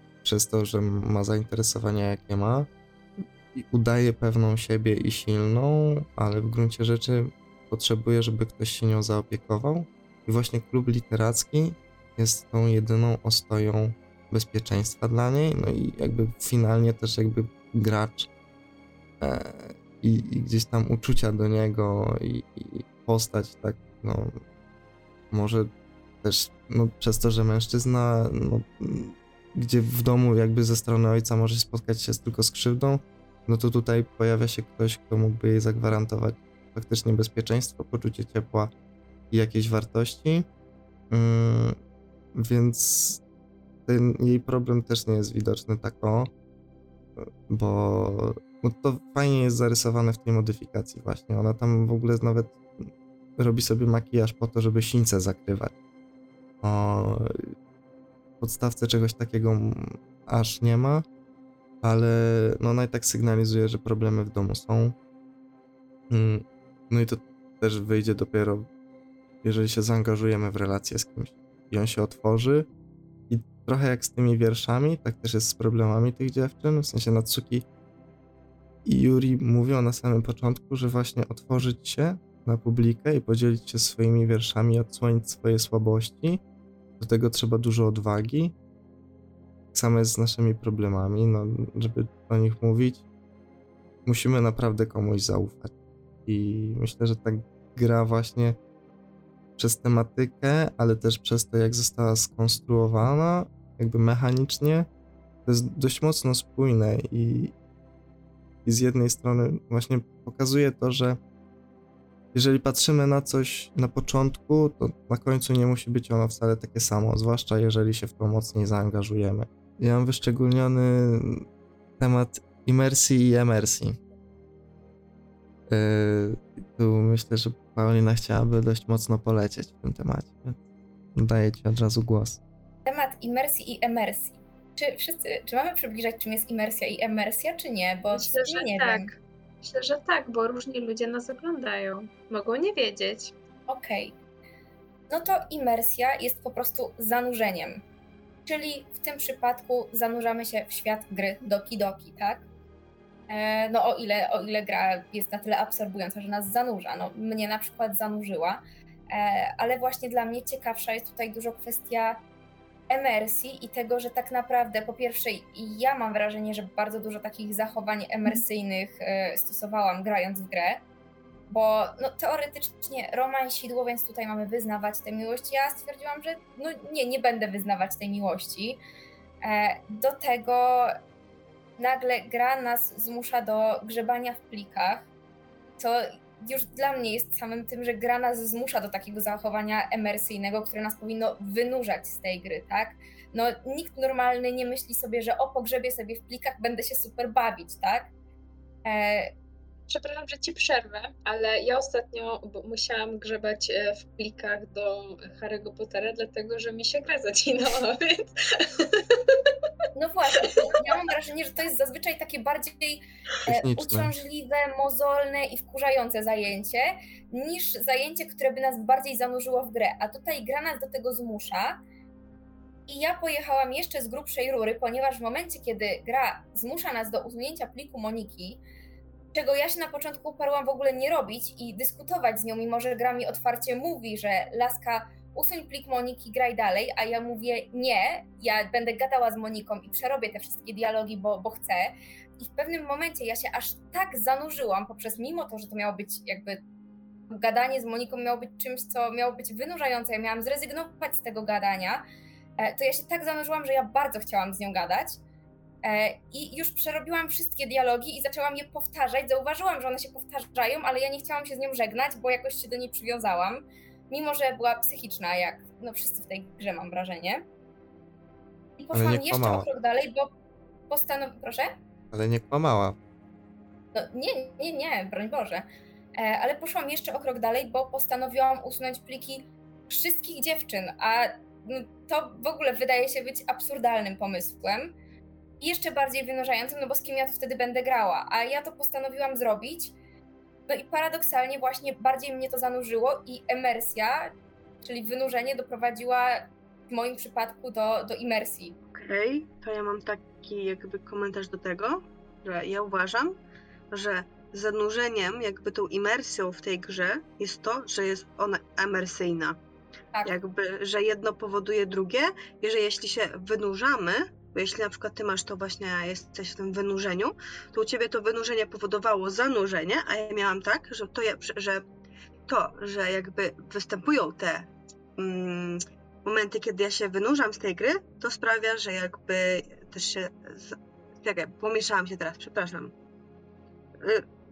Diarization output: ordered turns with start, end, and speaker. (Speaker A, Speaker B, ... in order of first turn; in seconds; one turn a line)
Speaker A: 0.2-2.7
Speaker A: 3.5-18.3
Speaker A: 19.2-24.4
Speaker A: 25.3-25.7
Speaker A: 26.2-38.7
Speaker A: 39.3-40.5
Speaker A: 41.1-41.8
Speaker A: 42.3-43.2
Speaker A: 43.9-46.3
Speaker A: 47.2-55.7
Speaker A: 56.6-57.5
Speaker A: 58.4-61.0
Speaker A: 61.8-64.9
Speaker A: 66.1-68.7
Speaker A: 69.4-72.7
Speaker A: 73.3-77.7
Speaker A: 78.8-86.4
Speaker A: 87.0-88.5
Speaker A: 89.7-93.0
Speaker A: 94.0-95.7
Speaker A: 96.2-98.6
Speaker A: 99.6-104.9
Speaker A: 105.5-107.5
Speaker A: 108.6-111.2
Speaker A: 112.3-121.5
Speaker A: 122.0-124.0
Speaker A: 125.7-130.6
Speaker A: 131.1-132.4
Speaker B: 132.8-139.1
Speaker C: 138.1-143.3
Speaker B: 143.7-144.1
Speaker B: 145.1-147.8
Speaker B: 148.4-152.4
Speaker B: 153.3-162.2
Speaker B: 162.9-170.8
Speaker B: 171.5-178.8
Speaker B: 179.4-181.0
Speaker B: 181.8-185.1
Speaker B: 185.8-198.1
Speaker B: 198.8-199.3
Speaker C: 199.9-209.5
Speaker B: 209.9-221.8
Speaker A: 213.4-214.1
Speaker B: 222.9-228.6
Speaker B: 229.3-246.6
Speaker B: 247.3-252.0
Speaker B: 252.6-255.2
Speaker B: 255.8-267.4
Speaker B: 268.8-270.3
Speaker A: 268.9-269.7
Speaker B: 270.9-271.7
Speaker A: 272.1-272.9
Speaker B: 273.9-275.6
Speaker B: 276.1-284.9
Speaker B: 285.6-289.9
Speaker B: 290.7-298.8
Speaker D: 298.9-303.4
Speaker D: 303.9-309.6
Speaker D: 310.2-321.8
Speaker D: 322.5-332.9
Speaker D: 334.0-334.2